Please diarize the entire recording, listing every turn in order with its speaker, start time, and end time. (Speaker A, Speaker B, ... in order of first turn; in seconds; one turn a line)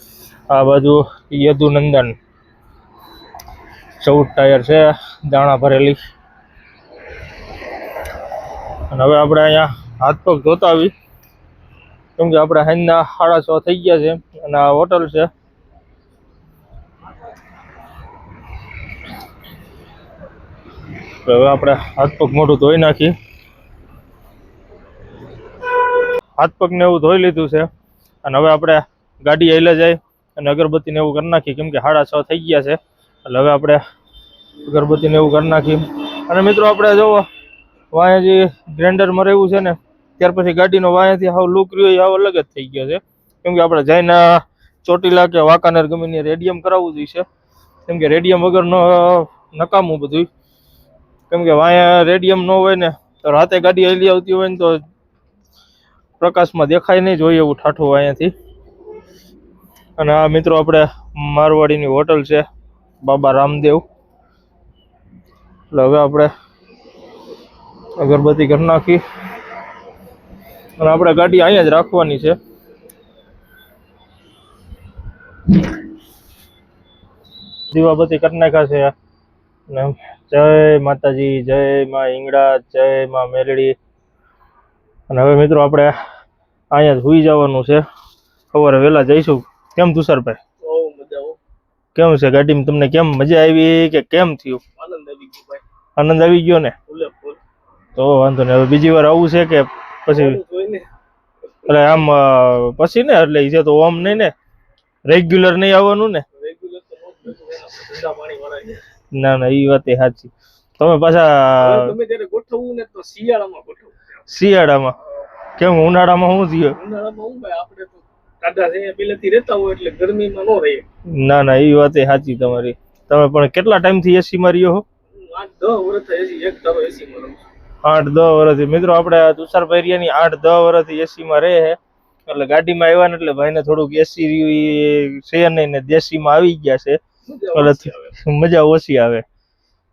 Speaker A: 0.5-2.1
Speaker A: 4.0-6.0
Speaker A: 8.9-10.9
Speaker A: 12.2-15.3
Speaker A: 21.2-23.1
Speaker A: 26.4-27.7
Speaker A: 28.2-33.8
Speaker A: 34.6-37.3
Speaker A: 37.9-47.2
Speaker A: 47.9-50.3
Speaker A: 51.3-54.8
Speaker A: 56.2-58.3
Speaker A: 60.0-62.5
Speaker A: 63.0-63.8
Speaker A: 65.7-66.3
Speaker A: 68.0-69.0
Speaker A: 70.8-72.4
Speaker A: 77.7-78.9
Speaker A: 79.7-83.8
Speaker A: 85.1-85.9
Speaker A: 86.7-87.8
Speaker A: 88.5-90.4
Speaker B: 90.6-91.4
Speaker A: 92.0-94.6
Speaker B: 94.8-95.6
Speaker A: 96.0-96.8
Speaker B: 96.9-97.4
Speaker A: 98.0-100.4
Speaker B: 100.1-100.9
Speaker A: 101.7-104.3
Speaker A: 105.1-106.3
Speaker B: 106.4-108.8
Speaker A: 109.1-111.9
Speaker B: 111.6-114.2
Speaker A: 114.3-115.0
Speaker A: 115.6-116.8
Speaker B: 116.8-120.8
Speaker A: 121.2-124.8
Speaker B: 125.2-127.4
Speaker A: 127.8-137.0
Speaker B: 137.3-138.2
Speaker A: 137.5-139.2